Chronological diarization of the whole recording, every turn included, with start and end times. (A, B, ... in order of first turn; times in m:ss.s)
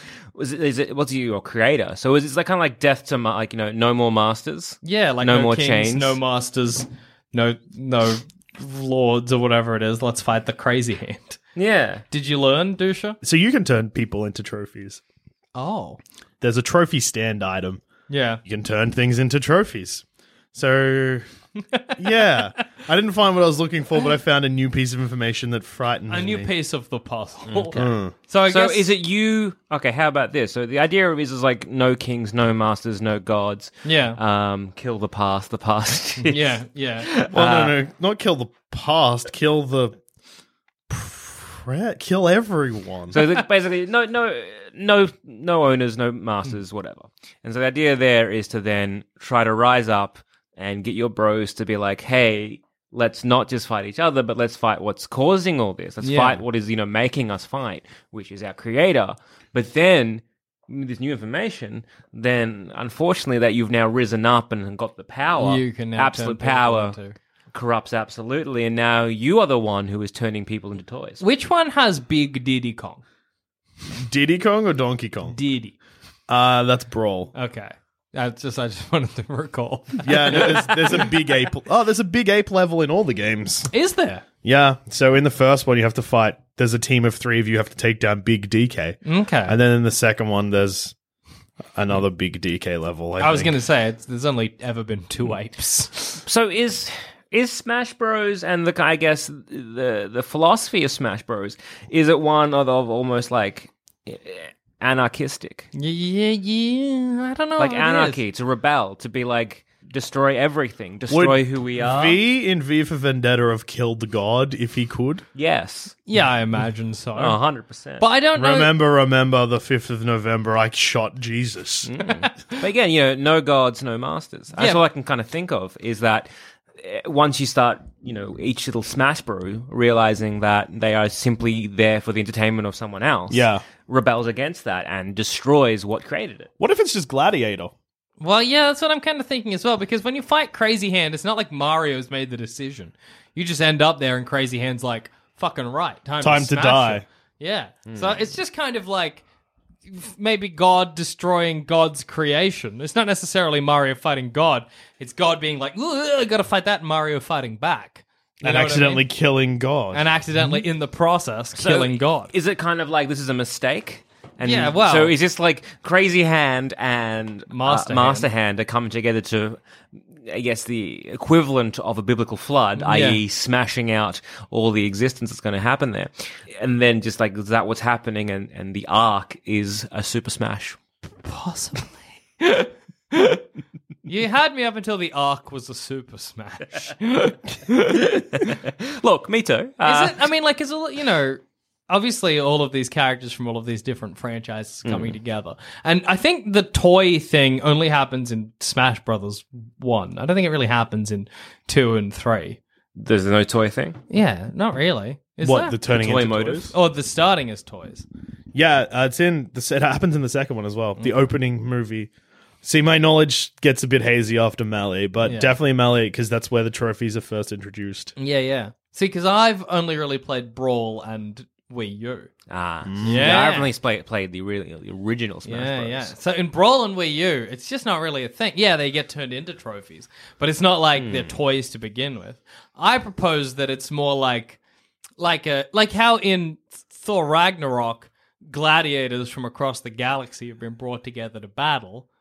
0:00.4-0:06.2 A
0:04.8-0:11.4 B
0:11.6-0:12.0 A
0:12.1-0:13.2 B
0:13.2-0:15.0 C
0:15.6-0:16.0 B
0:16.4-0:17.8 C
0:18.1-0:18.4 B
0:18.4-0:21.3 C
0:21.7-0:22.4 B
0:22.0-0:26.5 C
0:26.1-0:28.9 B
0:27.5-0:28.0 A
0:27.8-0:28.1 C
0:28.5-0:37.8 A
0:33.8-0:34.2 B
0:36.2-0:37.1 B
0:37.3-0:40.0 C
0:40.9-0:43.2 C
0:43.1-1:07.0 A
0:56.0-0:56.4 B
1:05.4-1:07.2 B
1:07.5-1:11.2 A
1:11.2-1:13.0 B
1:14.0-1:15.4 C
1:15.3-1:15.8 B
1:16.3-1:17.3 C
1:17.3-1:21.1 B
1:20.0-1:23.7 C
1:23.7-1:24.2 B
1:24.4-1:30.9 C
1:29.0-1:29.6 B
1:31.8-1:33.5 C
1:33.2-1:36.2 B
1:36.2-1:45.7 A
1:45.8-1:48.2 B
1:47.6-1:52.2 A
1:51.1-1:55.2 C
1:55.4-1:56.0 A
1:56.1-1:57.4 B
1:57.2-1:58.1 A
1:58.0-1:58.7 B
1:58.4-2:01.9 C
2:01.9-2:16.5 A
2:13.3-2:13.6 C
2:16.6-2:17.7 C
2:18.2-2:29.2 B
2:26.2-2:27.0 C
2:27.9-2:28.3 A
2:29.9-2:39.1 B
2:38.4-2:40.6 C
2:39.9-2:42.3 B
2:41.6-2:49.6 A
2:44.4-2:45.2 B
2:47.5-2:48.3 B
2:50.2-3:00.8 A
2:52.8-2:53.2 B
3:01.2-3:03.4 B
3:04.0-3:07.4 B
3:07.7-3:10.3 A
3:09.8-3:22.6 B
3:14.8-3:15.2 A
3:23.0-3:24.0 A
3:24.1-3:25.8 B
3:25.4-3:26.7 C
3:25.9-3:26.7 A
3:26.7-3:28.1 B
3:28.5-3:32.1 C
3:32.6-3:38.1 C
3:35.2-3:35.6 B
3:38.2-3:42.3 B
3:42.5-3:46.1 A
3:42.8-3:43.3 C
3:43.0-3:43.7 B
3:45.5-3:54.6 B
3:51.0-3:51.3 A
3:55.2-4:02.1 B